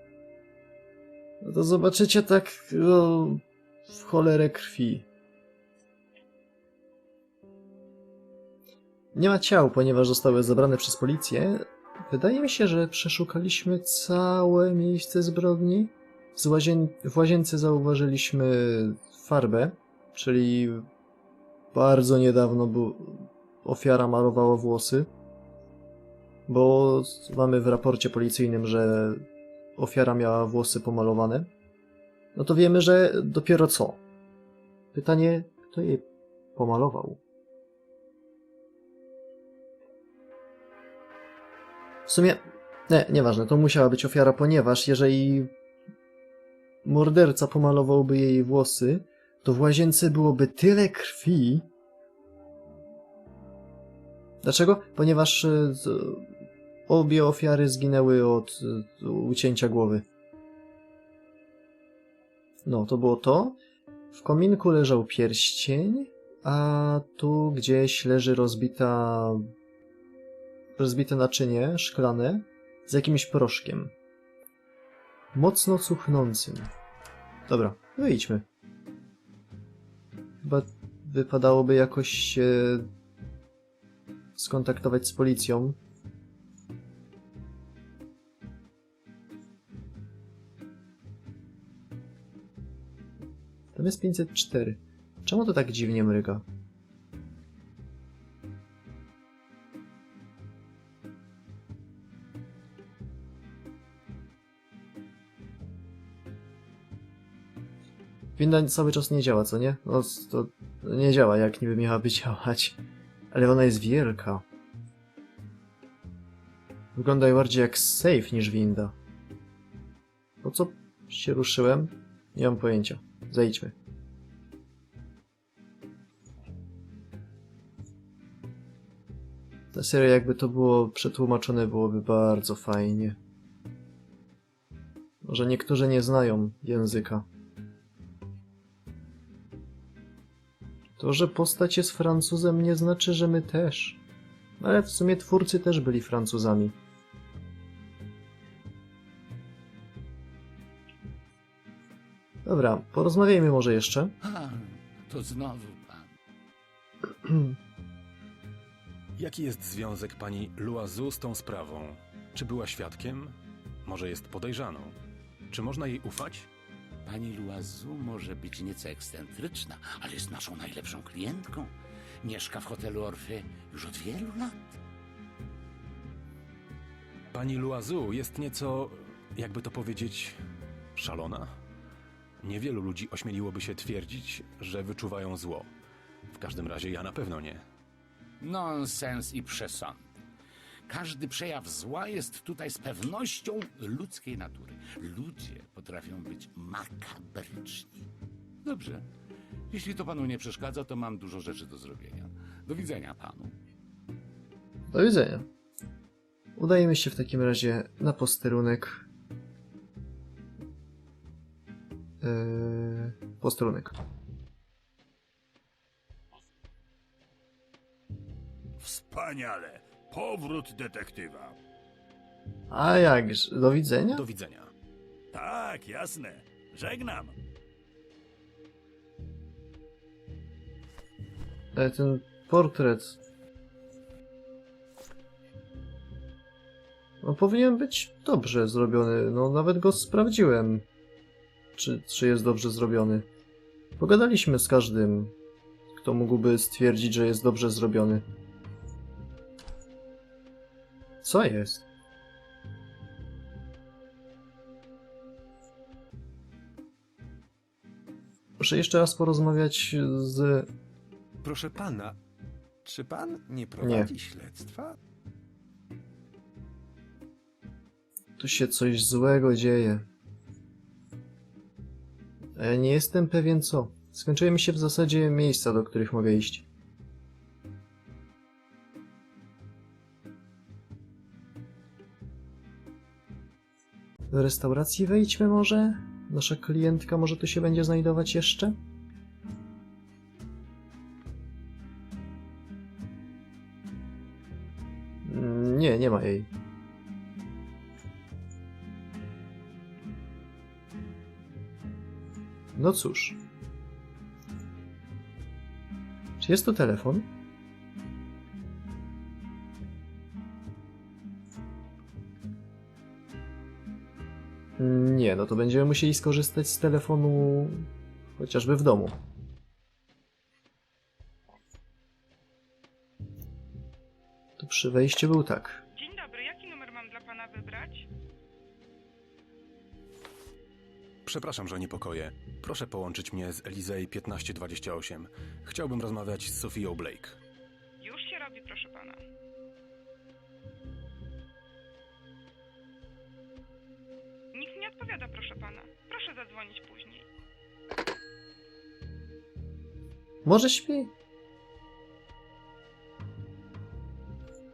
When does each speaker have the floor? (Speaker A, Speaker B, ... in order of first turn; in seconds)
Speaker A: 1.4-5.0, 9.1-20.9, 21.7-25.1, 26.5-29.2, 29.8-31.5, 32.3-34.0, 34.9-37.2, 42.1-45.5, 46.8-51.7, 54.4-56.3, 56.9-60.0, 62.6-63.6, 64.1-69.5, 70.8-73.9, 75.3-76.7, 77.5-78.4, 80.4-82.9, 84.3-85.8, 93.7-96.4, 108.4-112.8, 113.3-114.4, 116.9-118.9, 120.4-123.7, 129.7-133.2, 135.2-137.2, 141.0-144.0, 144.6-146.8, 152.4-154.1, 204.9-205.5, 206.6-209.0, 212.2-213.9, 222.7-224.2, 231.7-233.2, 237.2-240.8, 241.8-243.3, 244.0-245.3, 245.9-248.2, 251.2-251.8, 258.6-260.7, 263.8-264.1, 268.4-270.1, 272.6-276.6, 284.3-288.8, 295.2-296.5, 302.7-303.4, 306.4-307.3, 314.8-317.9, 318.4-319.2, 324.6-325.8, 350.4-351.1
Speaker B: 154.2-156.1, 167.1-174.6, 188.4-190.0, 190.9-198.1, 198.6-199.1, 199.7-203.5
Speaker C: 159.2-165.0, 165.5-166.5, 177.3-180.4, 180.9-181.5, 182.4-185.7, 186.3-187.6, 224.1-224.7, 331.2-337.4
Speaker D: 218.8-221.6, 225.3-227.3
Speaker E: 261.7-262.1, 262.8-265.0
Speaker F: 325.9-328.1, 338.0-339.2, 344.5-347.3